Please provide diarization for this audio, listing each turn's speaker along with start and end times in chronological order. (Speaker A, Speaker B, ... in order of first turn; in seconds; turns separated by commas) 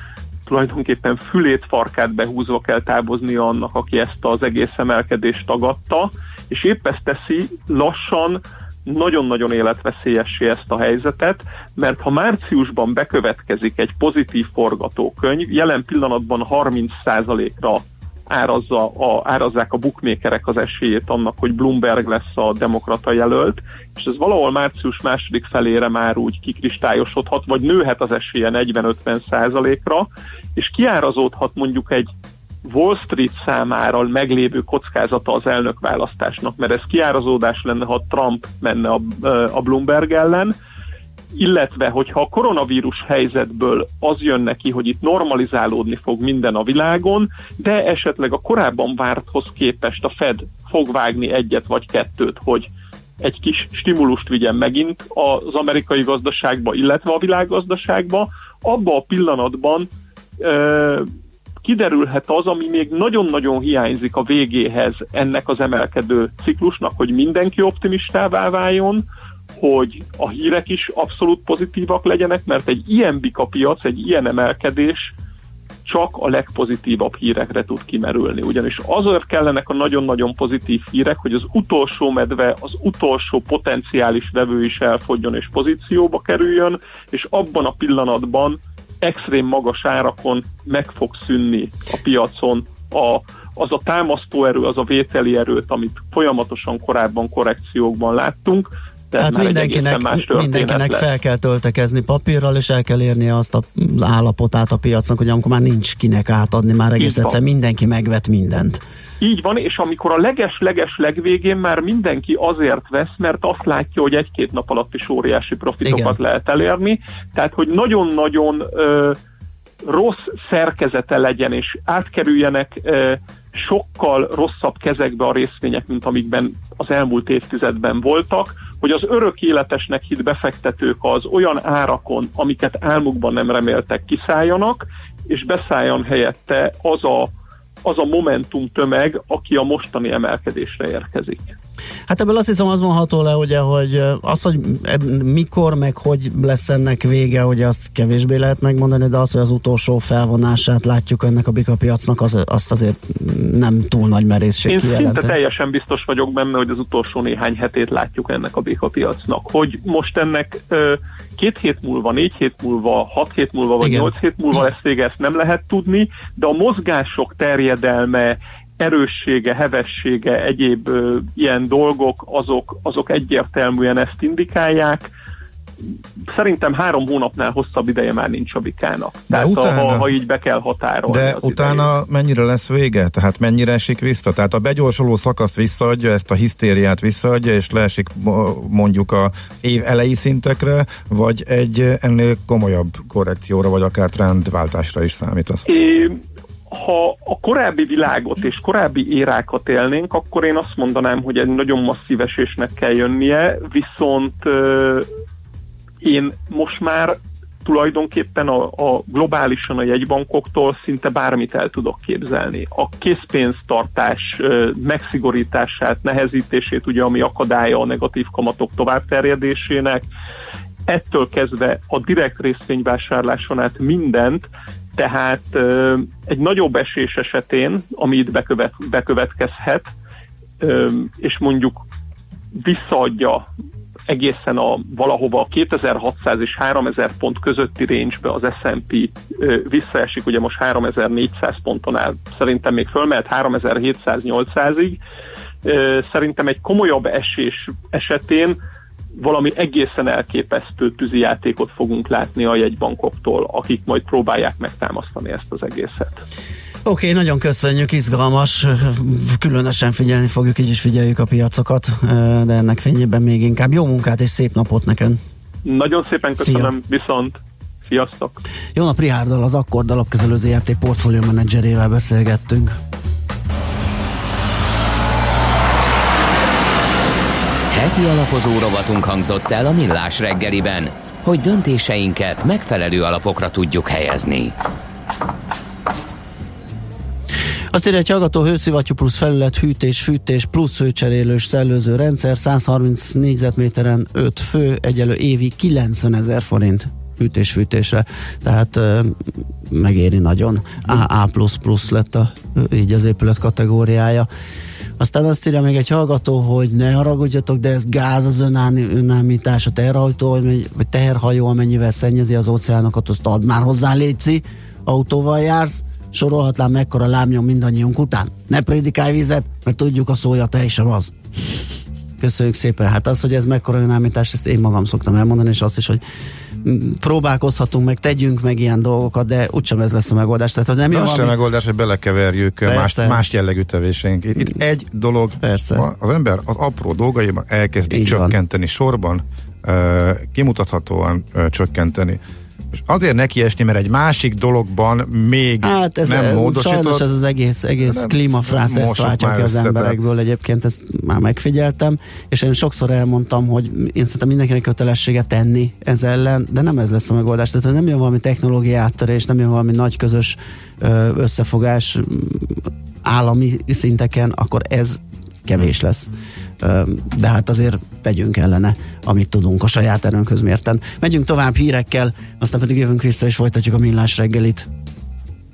Speaker A: 0.5-32.1, Speaker A: 32.6-40.5, Speaker A: 41.3-59.9, Speaker A: 60.4-61.1, Speaker A: 61.6-69.0, Speaker A: 69.6-75.1, Speaker A: 75.8-101.0, Speaker B: 99.2-108.8, Speaker A: 107.0-107.4, Speaker A: 109.2-119.2, Speaker B: 115.8-116.2, Speaker A: 119.8-137.3, Speaker A: 137.8-141.6, Speaker B: 142.1-155.3, Speaker A: 154.7-175.1, Speaker B: 163.8-164.1, Speaker A: 176.3-181.9, Speaker C: 179.3-180.1, Speaker C: 181.1-195.7, Speaker A: 195.7-196.2, Speaker A: 196.7-205.1, Speaker A: 206.0-220.1, Speaker A: 220.9-229.9, Speaker A: 230.6-231.8, Speaker A: 232.5-233.4, Speaker A: 234.1-245.0, Speaker A: 245.6-248.6, Speaker A: 249.2-256.2, Speaker B: 256.9-265.2, Speaker A: 265.6-268.4, Speaker B: 266.4-266.7, Speaker B: 268.7-272.8, Speaker D: 277.7-284.5, Speaker B: 287.7-304.3, Speaker B: 305.0-321.1, Speaker B: 322.2-326.0, Speaker B: 326.6-331.4, Speaker C: 330.9-342.2, Speaker B: 332.6-333.2, Speaker B: 335.4-335.9, Speaker B: 337.9-338.4, Speaker C: 342.7-347.0, Speaker B: 345.6-374.7, Speaker C: 347.8-350.0